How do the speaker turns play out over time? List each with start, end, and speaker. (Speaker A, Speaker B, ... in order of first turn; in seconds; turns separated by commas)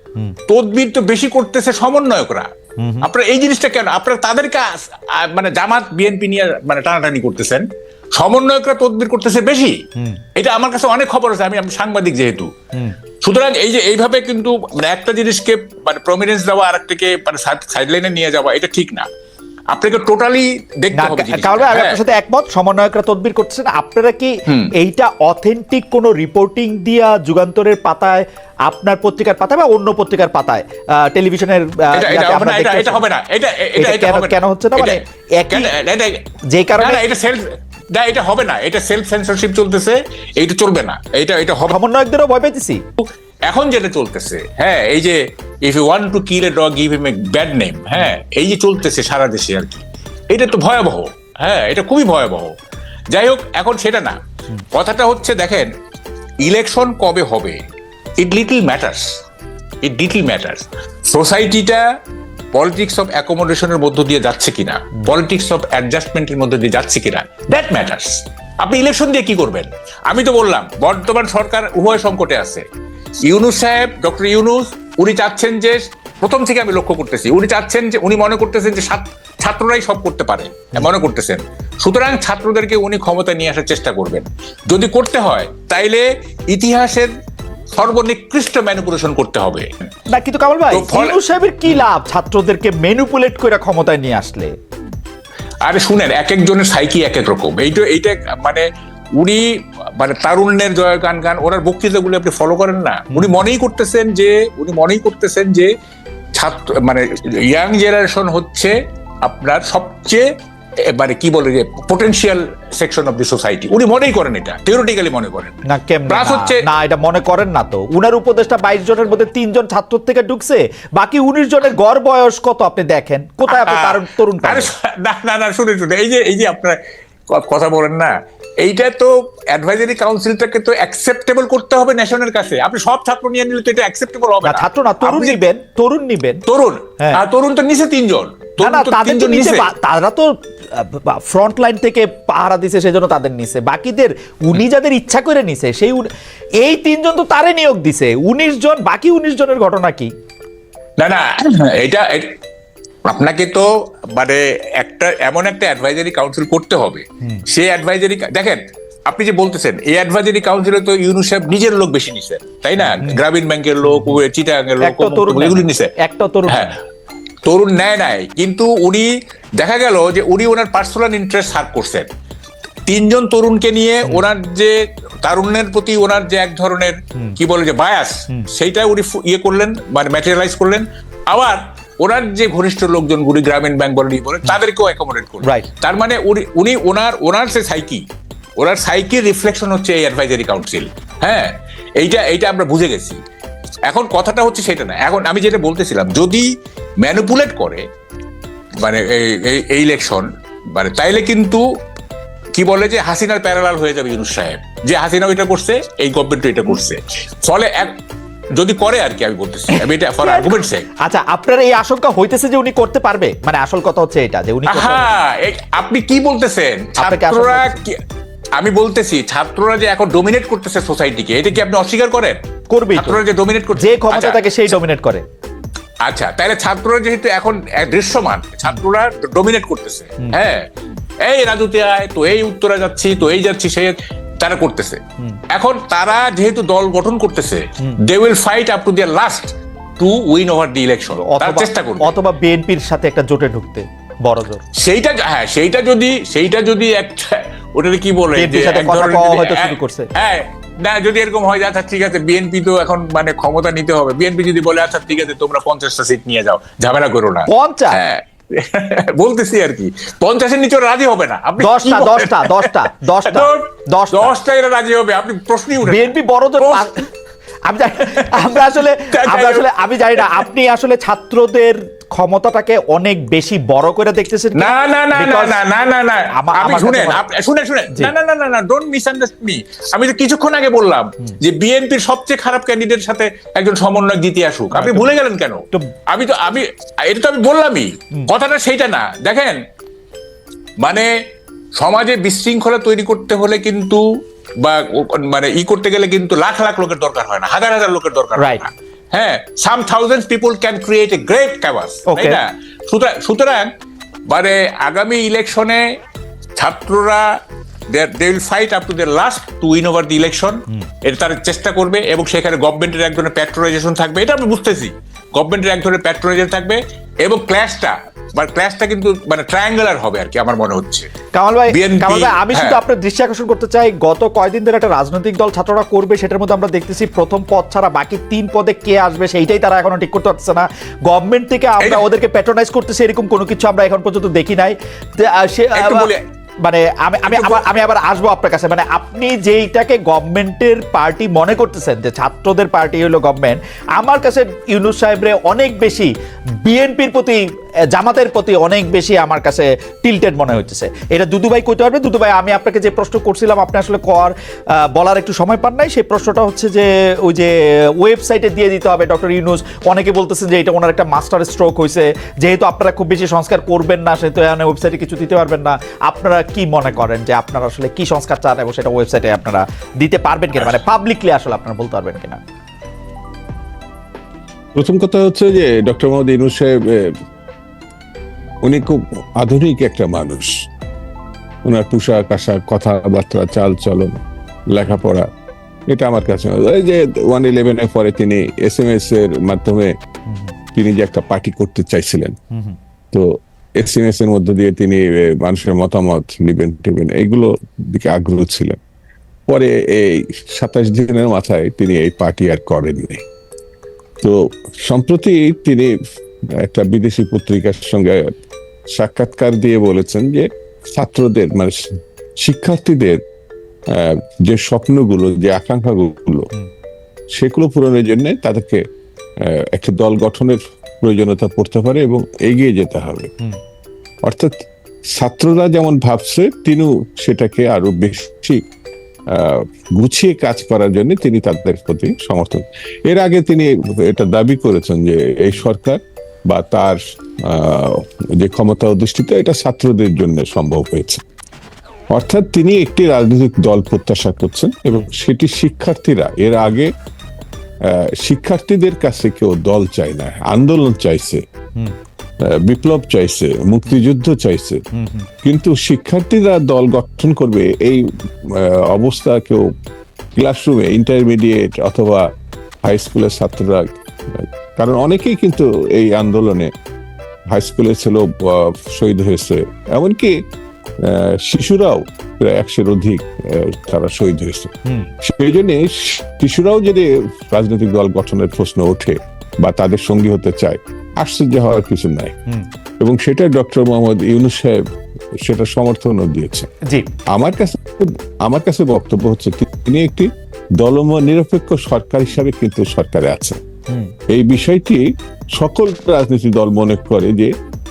Speaker A: 0.5-2.5, Speaker B: 2.8-3.1, Speaker A: 3.0-9.8, Speaker A: 10.3-12.5, Speaker A: 13.2-19.1, Speaker A: 19.7-22.0, Speaker B: 20.9-33.0, Speaker A: 24.5-24.7, Speaker A: 31.9-36.2, Speaker B: 33.8-35.7, Speaker B: 36.5-37.0, Speaker A: 36.8-41.8, Speaker B: 41.7-42.8, Speaker A: 43.0-52.5, Speaker A: 53.1-54.2, Speaker A: 54.7-55.7, Speaker A: 56.4-57.6, Speaker A: 58.2-59.0, Speaker A: 59.8-61.8, Speaker A: 62.5-72.6, Speaker A: 73.2-87.1, Speaker A: 87.7-89.7, Speaker B: 90.1-94.5, Speaker A: 90.7-91.2, Speaker A: 95.6-105.7, Speaker B: 103.1-103.4, Speaker A: 106.3-110.3, Speaker A: 110.8-116.6, Speaker B: 115.7-124.7, Speaker A: 123.5-126.8, Speaker A: 127.3-135.4, Speaker B: 134.4-136.4, Speaker A: 136.4-139.7, Speaker B: 138.6-146.1, Speaker B: 146.6-150.1, Speaker A: 151.0-152.4, Speaker A: 153.0-165.9, Speaker B: 162.8-163.2, Speaker B: 163.8-164.2, Speaker B: 164.8-166.6, Speaker A: 166.5-166.7, Speaker A: 167.4-172.1, Speaker A: 172.9-188.0, Speaker B: 185.4-185.7, Speaker A: 188.6-193.2, Speaker A: 193.9-196.5, Speaker A: 197.0-197.8, Speaker A: 198.8-201.6, Speaker A: 202.5-207.9, Speaker A: 208.5-210.9, Speaker B: 209.7-210.5, Speaker B: 211.0-215.1, Speaker A: 214.7-218.0, Speaker B: 217.0-217.8, Speaker A: 218.6-222.4, Speaker B: 222.7-223.2, Speaker A: 222.9-224.7, Speaker B: 223.8-225.2, Speaker A: 226.0-230.6, Speaker A: 231.2-242.1, Speaker B: 241.2-244.6, Speaker A: 244.7-266.9, Speaker B: 248.3-250.1, Speaker B: 257.5-258.0, Speaker B: 261.6-264.3, Speaker B: 265.8-267.0, Speaker B: 267.7-275.6, Speaker A: 268.0-269.6, Speaker A: 274.5-289.6, Speaker B: 276.4-277.2, Speaker B: 284.7-285.1, Speaker A: 290.8-291.1, Speaker A: 291.8-294.0, Speaker A: 294.6-303.7, Speaker B: 298.4-298.6, Speaker B: 302.1-302.4, Speaker A: 304.3-305.8, Speaker A: 306.6-307.3, Speaker A: 307.9-321.1, Speaker B: 321.3-336.1, Speaker A: 321.7-322.8, Speaker A: 331.8-332.1, Speaker A: 335.7-336.2, Speaker B: 336.6-346.1, Speaker A: 337.2-337.7, Speaker B: 346.6-347.4, Speaker B: 347.9-372.4, Speaker C: 374.7-377.2, Speaker C: 378.6-380.6, Speaker C: 381.6-384.1, Speaker C: 384.7-385.3, Speaker C: 385.9-389.9, Speaker B: 390.3-390.5, Speaker C: 390.7-392.4, Speaker B: 392.5-392.8, Speaker C: 393.1-398.8, Speaker C: 399.5-403.2, Speaker C: 404.2-405.9, Speaker C: 406.6-408.3, Speaker C: 408.9-413.2, Speaker C: 413.9-416.5, Speaker C: 417.3-418.8, Speaker C: 419.4-423.3, Speaker C: 424.2-424.5, Speaker C: 425.1-428.6, Speaker C: 429.3-441.2, Speaker C: 442.1-446.9, Speaker C: 447.8-451.4, Speaker C: 452.4-454.8, Speaker B: 454.9-455.3, Speaker C: 455.4-459.7, Speaker C: 460.4-462.3, Speaker C: 462.8-466.7, Speaker C: 467.5-470.4, Speaker C: 471.0-482.3, Speaker C: 483.0-484.8, Speaker C: 485.4-486.7, Speaker C: 487.3-493.6, Speaker B: 493.9-494.1, Speaker C: 494.3-497.5